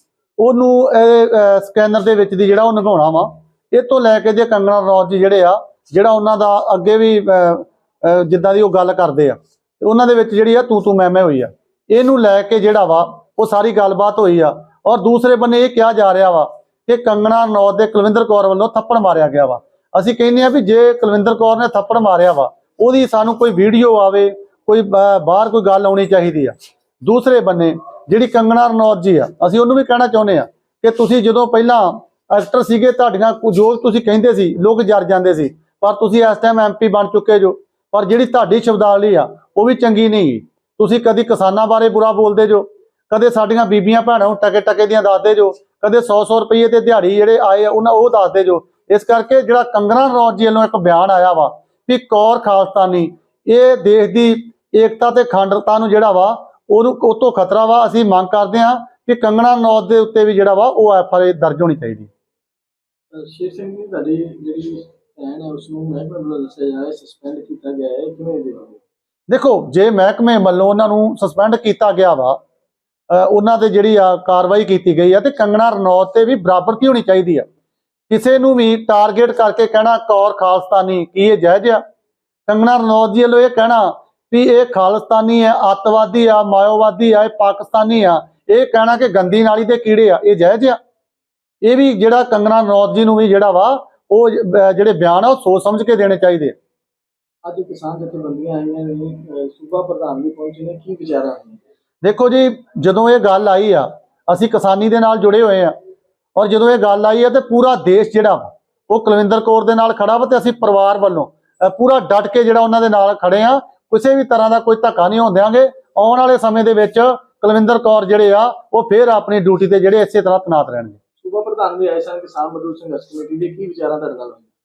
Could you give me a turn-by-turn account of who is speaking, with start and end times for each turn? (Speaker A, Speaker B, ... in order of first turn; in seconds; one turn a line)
Speaker A: 0.4-62.1
Speaker B: 63.1-68.8
Speaker A: 69.3-72.4
Speaker A: 73.1-77.5
Speaker A: 78.1-81.8
Speaker A: 82.5-90.8
Speaker A: 91.6-96.5
Speaker B: 97.5-101.6
Speaker A: 102.0-105.7
Speaker A: 106.4-121.0
Speaker B: 121.2-124.5